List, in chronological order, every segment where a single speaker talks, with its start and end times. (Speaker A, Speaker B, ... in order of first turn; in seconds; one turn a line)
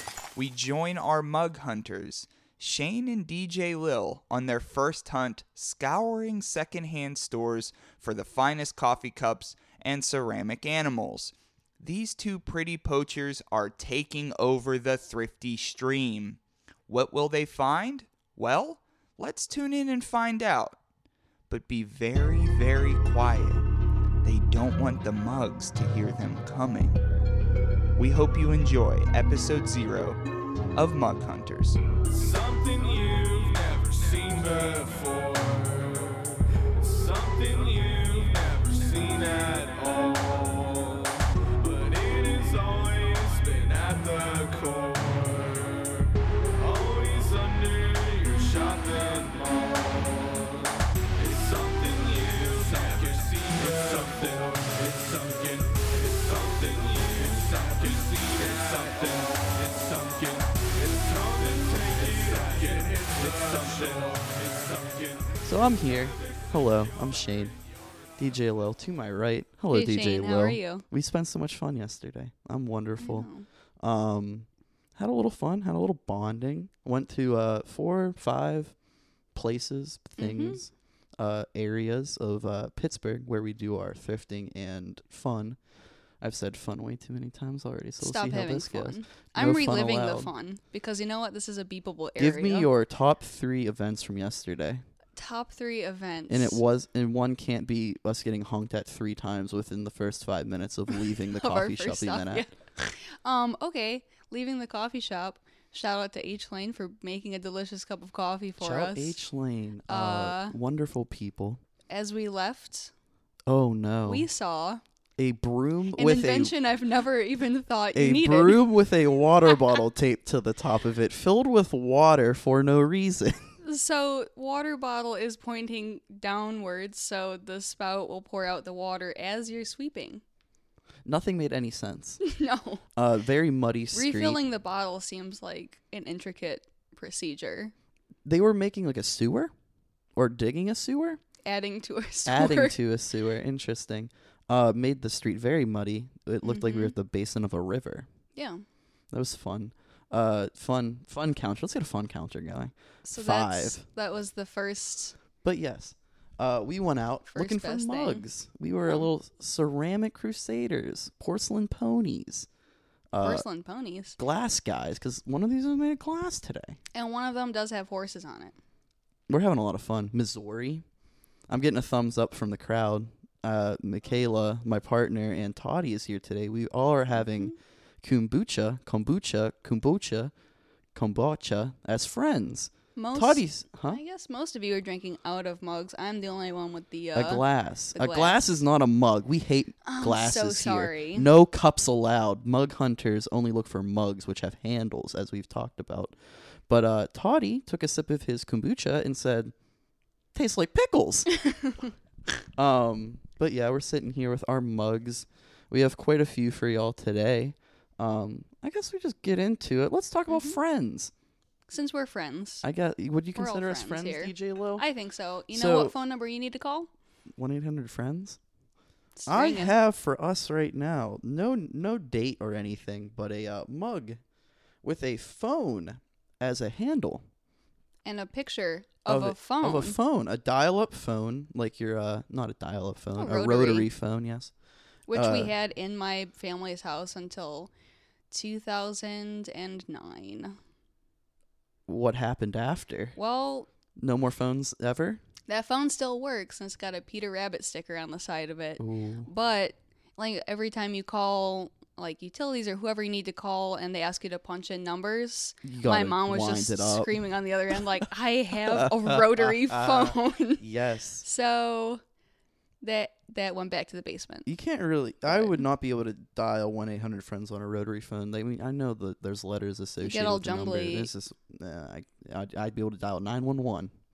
Speaker A: 0.3-20.8
Speaker A: 21.5-23.6
Speaker A: 24.2-27.0
Speaker A: 28.0-30.2
Speaker A: 30.7-31.8
Speaker B: 32.1-65.3
Speaker C: 65.4-67.6
Speaker C: 68.2-73.3
Speaker D: 69.7-70.8
Speaker D: 73.0-73.5
Speaker C: 73.8-78.7
Speaker C: 79.3-85.6
Speaker D: 80.2-80.6
Speaker C: 86.2-90.3
Speaker D: 88.0-92.7
Speaker C: 92.2-94.8
Speaker D: 95.2-96.6
Speaker C: 96.3-102.5
Speaker D: 101.2-109.2
Speaker C: 108.6-111.6
Speaker D: 109.9-110.5
Speaker D: 111.9-112.9
Speaker C: 113.5-114.2
Speaker D: 114.0-114.8
Speaker C: 115.2-116.5
Speaker D: 116.0-118.7
Speaker C: 117.9-123.5
Speaker D: 123.6-130.2
Speaker C: 131.0-132.2
Speaker D: 132.2-132.8
Speaker C: 132.9-134.4
Speaker D: 133.9-137.7
Speaker C: 138.2-139.5
Speaker C: 140.2-141.2
Speaker D: 141.4-142.8
Speaker C: 142.3-148.1
Speaker D: 146.4-146.9
Speaker D: 148.3-148.6
Speaker C: 149.1-153.8
Speaker D: 153.1-155.1
Speaker C: 155.4-162.5
Speaker D: 157.3-158.2
Speaker C: 163.1-163.4
Speaker D: 163.2-164.2
Speaker C: 164.2-166.8
Speaker D: 166.9-168.5
Speaker C: 169.3-170.8
Speaker C: 171.5-180.3
Speaker C: 180.9-184.0
Speaker D: 182.9-188.4
Speaker C: 187.1-196.2
Speaker D: 189.8-191.3
Speaker C: 196.7-199.5
Speaker C: 200.3-201.3
Speaker D: 201.4-201.8
Speaker C: 202.6-211.1
Speaker D: 210.3-210.6
Speaker D: 211.7-212.6
Speaker C: 212.6-214.8
Speaker D: 213.3-216.9
Speaker C: 215.5-215.9
Speaker C: 217.3-218.4
Speaker D: 219.2-219.7
Speaker C: 219.3-224.2
Speaker C: 224.8-227.2
Speaker D: 228.0-230.0
Speaker C: 229.1-234.5
Speaker D: 233.1-233.9
Speaker D: 235.1-237.7
Speaker C: 235.1-235.5
Speaker D: 238.3-240.6
Speaker C: 241.9-243.2
Speaker D: 243.2-243.7
Speaker C: 243.9-245.2
Speaker D: 245.5-260.6
Speaker C: 248.8-249.3
Speaker C: 255.6-257.1
Speaker C: 258.7-261.2
Speaker D: 261.2-262.0
Speaker D: 262.8-264.5
Speaker C: 264.4-273.9
Speaker D: 265.3-265.6
Speaker D: 270.0-271.1